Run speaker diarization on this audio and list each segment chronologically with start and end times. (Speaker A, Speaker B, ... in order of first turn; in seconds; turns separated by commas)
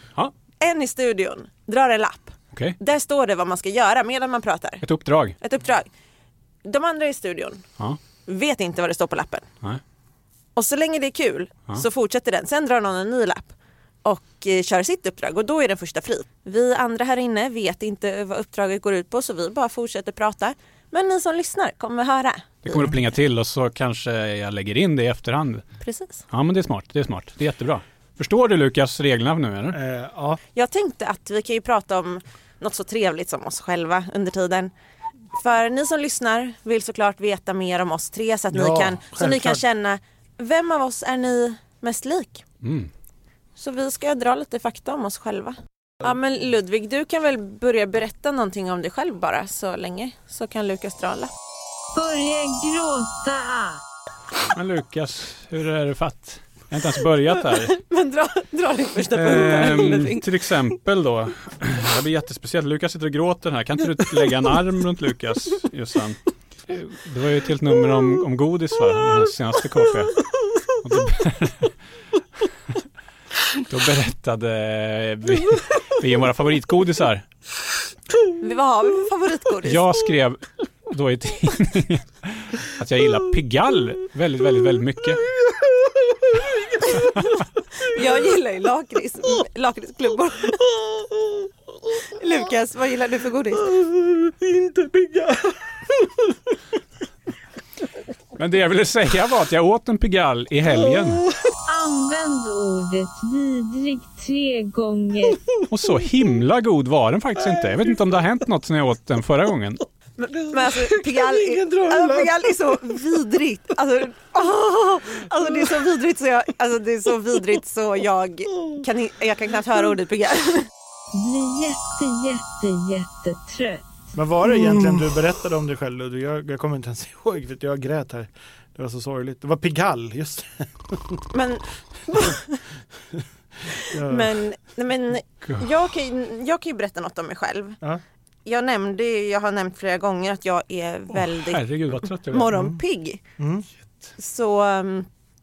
Speaker A: 0.6-4.8, Speaker B: 4.8-5.4, Speaker A: 5.4-5.9, Speaker A: 6.6-7.6, Speaker A: 8.2-9.4, Speaker A: 10.6-13.5, Speaker A: 14.0-23.0, Speaker B: 22.6-25.6, Speaker A: 25.8-26.2, Speaker B: 26.3-29.8, Speaker C: 29.7-30.4, Speaker A: 30.6-34.7, Speaker A: 35.3-42.4, Speaker C: 38.5-39.6, Speaker B: 42.6-42.9, Speaker A: 43.6-51.3, Speaker D: 51.9-53.8, Speaker B: 54.5-57.7, Speaker A: 57.6-60.3, Speaker B: 59.1-70.2, Speaker B: 70.8-71.7, Speaker B: 73.7-77.2, Speaker A: 78.4-79.8, Speaker B: 79.6-85.2, Speaker C: 85.9-86.7, Speaker A: 87.8-90.6, Speaker C: 90.8-91.4, Speaker A: 92.1-93.7, Speaker C: 93.6-96.2, Speaker B: 98.3-101.3, Speaker D: 101.6-105.4, Speaker B: 105.7-109.8, Speaker C: 110.2-112.8, Speaker A: 110.5-120.7, Speaker D: 121.1-123.8, Speaker C: 124.1-131.2, Speaker A: 131.3-132.6, Speaker A: 133.7-137.8, Speaker C: 133.9-134.4, Speaker A: 138.4-143.2, Speaker B: 141.1-142.5, Speaker C: 142.5-142.8, Speaker C: 143.4-143.7, Speaker A: 144.2-145.1